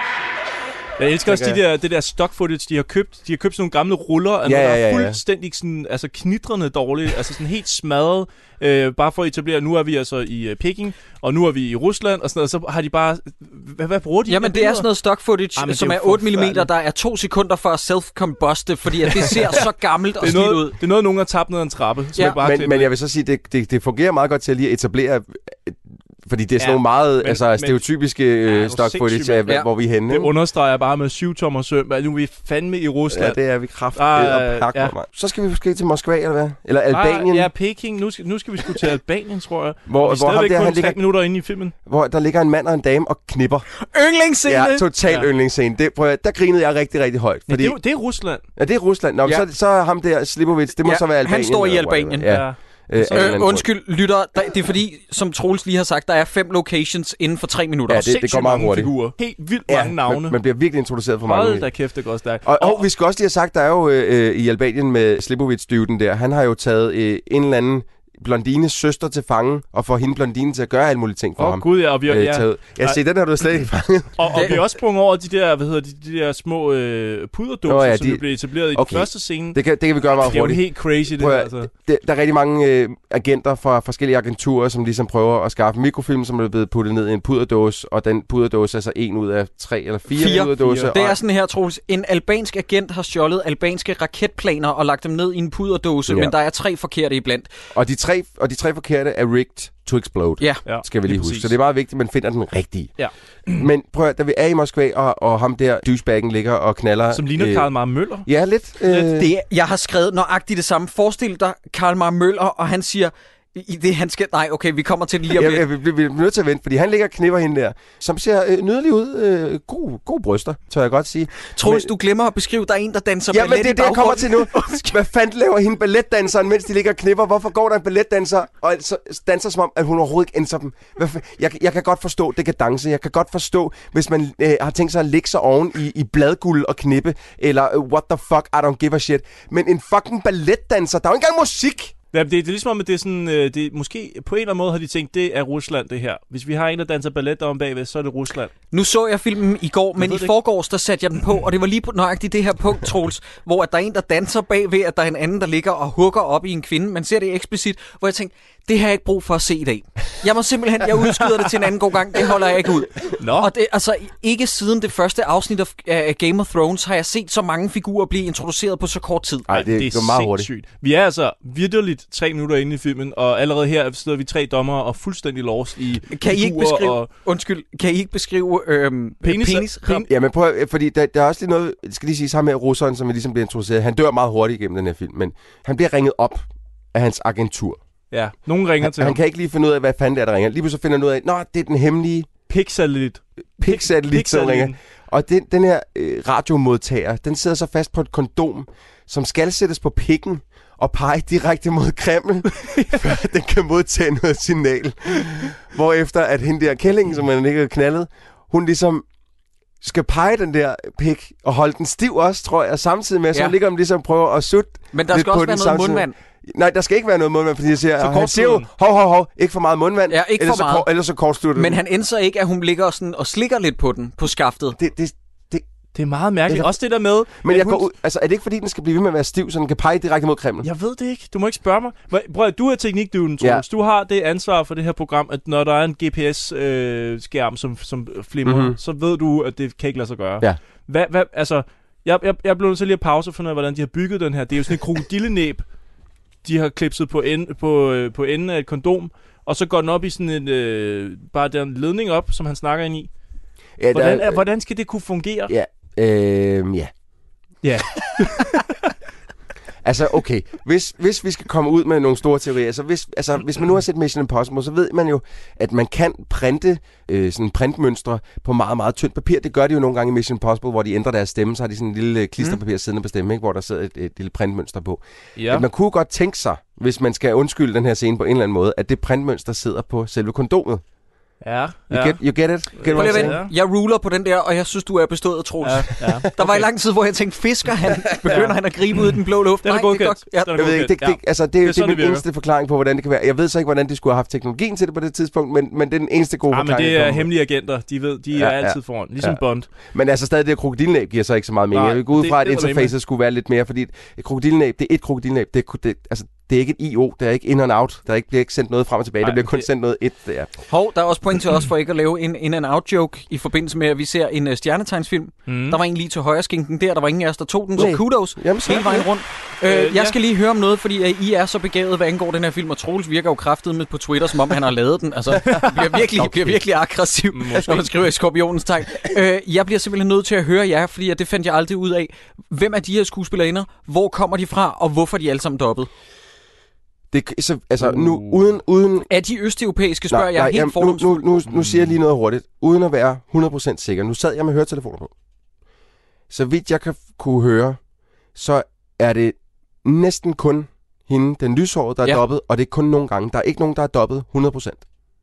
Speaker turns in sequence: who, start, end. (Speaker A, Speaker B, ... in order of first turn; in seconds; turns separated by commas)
Speaker A: 1.0-14.9, Speaker B: 1.2-1.6, Speaker B: 4.4-5.2, Speaker C: 14.3-20.7, Speaker A: 15.6-16.7, Speaker A: 19.1-19.7, Speaker A: 20.2-22.9, Speaker B: 22.4-30.3, Speaker A: 26.6-27.8, Speaker A: 28.4-33.4, Speaker B: 33.1-37.5, Speaker A: 33.9-34.9, Speaker A: 36.9-41.7, Speaker B: 39.9-41.0, Speaker B: 41.9-43.6, Speaker C: 43.8-44.9, Speaker B: 44.4-47.8, Speaker A: 47.5-48.4, Speaker B: 48.5-53.6, Speaker C: 50.8-52.4, Speaker A: 52.2-53.5, Speaker C: 53.1-58.1, Speaker B: 57.9-58.9, Speaker A: 58.0-60.4, Speaker B: 59.7-61.7, Speaker A: 61.2-62.8, Speaker B: 62.4-74.5, Speaker A: 71.4-73.0, Speaker A: 74.2-79.6, Speaker C: 74.3-74.6, Speaker B: 77.7-91.2, Speaker A: 80.1-81.7, Speaker C: 90.1-97.5, Speaker A: 90.5-90.9, Speaker B: 96.1-96.3, Speaker B: 97.7-102.9, Speaker A: 100.7-101.5, Speaker A: 103.0-103.6, Speaker B: 103.5-107.7, Speaker A: 107.1-108.3, Speaker B: 108.2-109.3, Speaker C: 109.0-115.6, Speaker B: 115.3-121.9, Speaker C: 121.5-124.9, Speaker B: 123.3-141.9, Speaker A: 142.1-148.5, Speaker C: 148.7-169.5, Speaker A: 150.0-150.3, Speaker A: 163.2-163.5, Speaker B: 169.5-170.5, Speaker A: 169.5-177.1, Speaker C: 176.1-180.0, Speaker A: 179.2-180.1, Speaker B: 180.0-187.8, Speaker A: 188.1-189.2, Speaker B: 188.8-192.3, Speaker A: 192.5-194.8, Speaker B: 193.6-209.0, Speaker A: 202.6-202.9, Speaker B: 209.8-221.8, Speaker C: 214.9-216.1, Speaker A: 218.0-218.7, Speaker C: 220.1-220.8, Speaker C: 221.6-224.8, Speaker B: 224.8-225.7, Speaker A: 225.9-227.9, Speaker B: 227.4-230.7, Speaker A: 230.6-245.6, Speaker B: 238.4-238.8, Speaker A: 246.4-253.1, Speaker B: 253.8-254.4, Speaker A: 253.9-255.5, Speaker B: 255.5-256.9, Speaker A: 257.6-258.9, Speaker B: 259.8-280.8, Speaker A: 275.4-275.6, Speaker A: 281.4-282.2, Speaker B: 281.9-283.4, Speaker A: 282.7-283.5, Speaker C: 282.9-290.5, Speaker A: 285.6-286.7, Speaker A: 288.2-292.2, Speaker B: 290.5-297.3, Speaker A: 296.5-299.7, Speaker B: 298.3-310.5, Speaker A: 301.7-302.9, Speaker A: 309.2-309.6, Speaker C: 310.7-335.9, Speaker A: 315.5-315.8, Speaker B: 317.8-319.1, Speaker A: 319.6-320.2, Speaker A: 325.4-326.0, Speaker B: 326.2-326.5, Speaker A: 327.3-327.9, Speaker B: 337.1-339.1, Speaker C: 339.1-341.2, Speaker B: 340.1-345.1, Speaker A: 341.5-341.9, Speaker B: 346.3-347.8, Speaker B: 348.3-354.8